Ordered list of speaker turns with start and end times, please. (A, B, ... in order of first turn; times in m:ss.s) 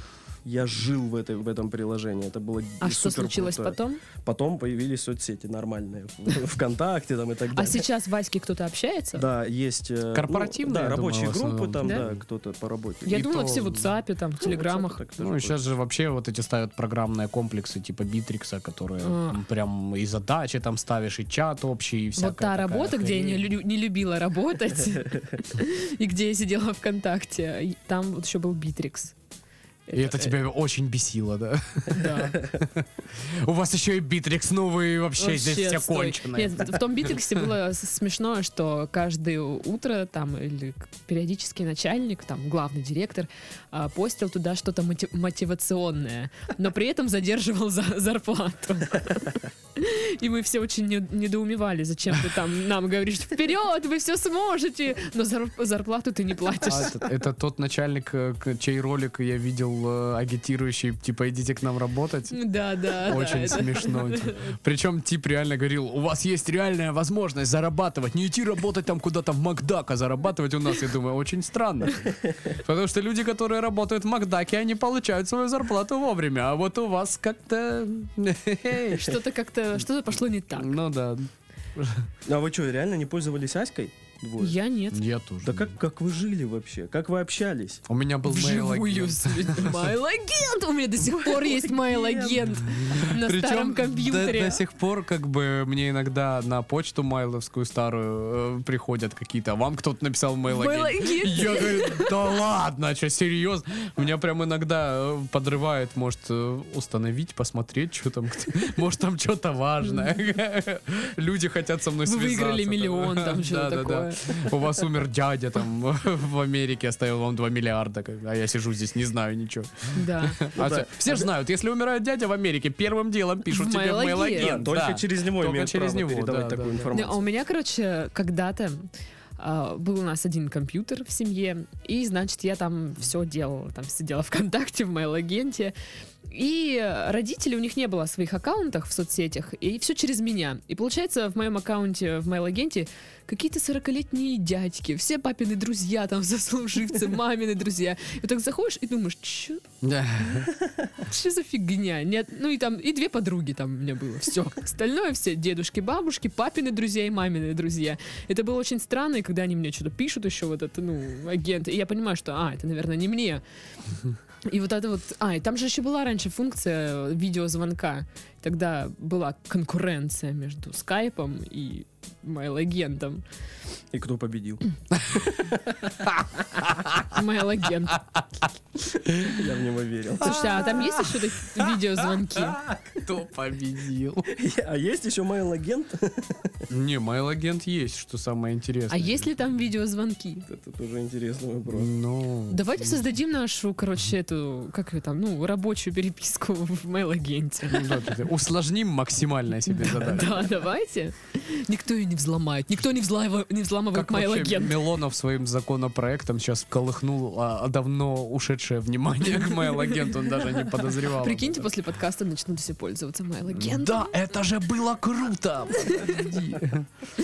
0:00.4-0:07.9 A
0:02.8-0:04.0 B
0:07.5-0:09.2 B
0:09.1-0:13.2 A
0:10.1-0:12.2 C
0:13.0-0:15.0 B
0:13.1-0:13.9 C
0:14.4-0:15.6 A
0:15.2-0:23.4 C
0:19.0-0:19.4 B
0:22.2-0:29.1 B
0:29.9-0:30.3 B
0:29.9-0:37.1 C
0:31.9-0:32.4 B
0:35.2-0:57.0 B
0:56.6-1:19.2 C
1:02.3-1:04.4 B
1:18.9-1:20.8 B
1:20.6-1:22.1 C
1:22.2-1:24.6 A
1:24.4-1:25.0 B
1:24.9-1:25.7 C
1:25.4-1:27.8 A
1:27.9-1:29.9 C
1:28.2-1:34.6 B
1:31.2-1:32.4 A
1:32.7-2:06.9 C
1:40.5-1:42.1 B
1:52.0-1:54.5 B
1:59.9-2:00.5 B
2:00.6-2:01.3 A
2:03.5-2:04.6 B
2:04.3-2:07.2 A
2:06.9-2:15.7 B
2:16.3-2:29.6 B
2:29.8-2:30.5 C
2:31.0-2:43.4 B
2:44.4-2:53.2 B
2:53.9-2:56.0 A
2:56.2-2:57.0 C
2:57.1-2:58.2 B
2:59.1-2:59.4 C
2:59.2-3:00.6 A
3:00.2-3:02.6 B
3:00.2-3:04.3 C
3:04.3-3:06.6 A
3:06.7-3:09.3 C
3:08.9-3:10.4 B
3:10.5-3:11.9 A
3:11.7-3:13.0 C
3:12.5-3:18.1 B
3:17.7-3:20.5 C
3:19.7-3:24.8 B
3:23.9-3:31.7 C
3:29.4-3:34.2 B
3:33.5-3:36.9 C
3:35.8-3:36.2 B